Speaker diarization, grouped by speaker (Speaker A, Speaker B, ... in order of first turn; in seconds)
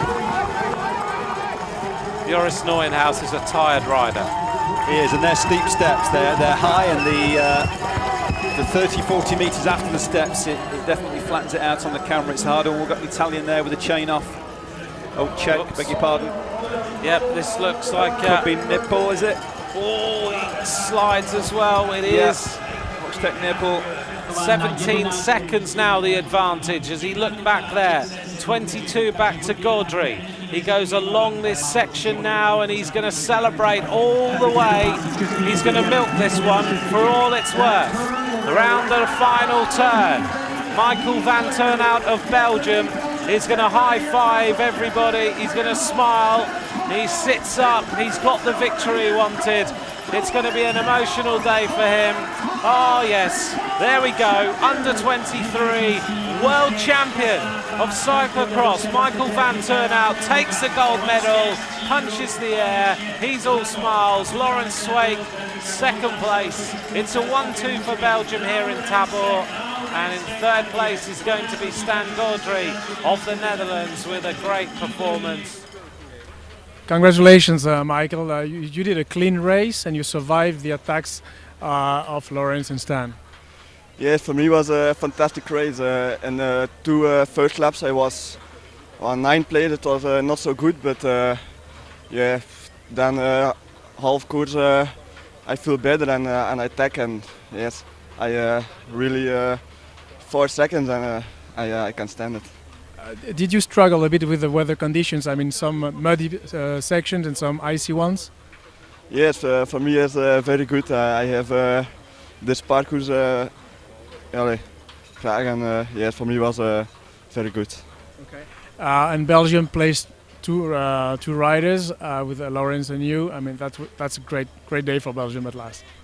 Speaker A: 2.2-4.3, 15.5-15.9, 17.0-18.4, 19.7-22.6, 24.3-75.6
Speaker B: 4.8-7.8, 8.5-14.6, 15.1-16.4, 18.2-19.4, 22.1-22.4, 23.0-23.9
Speaker C: 76.9-83.2, 103.0-108.4, 118.4-125.8
Speaker D: 84.0-102.6, 109.1-117.9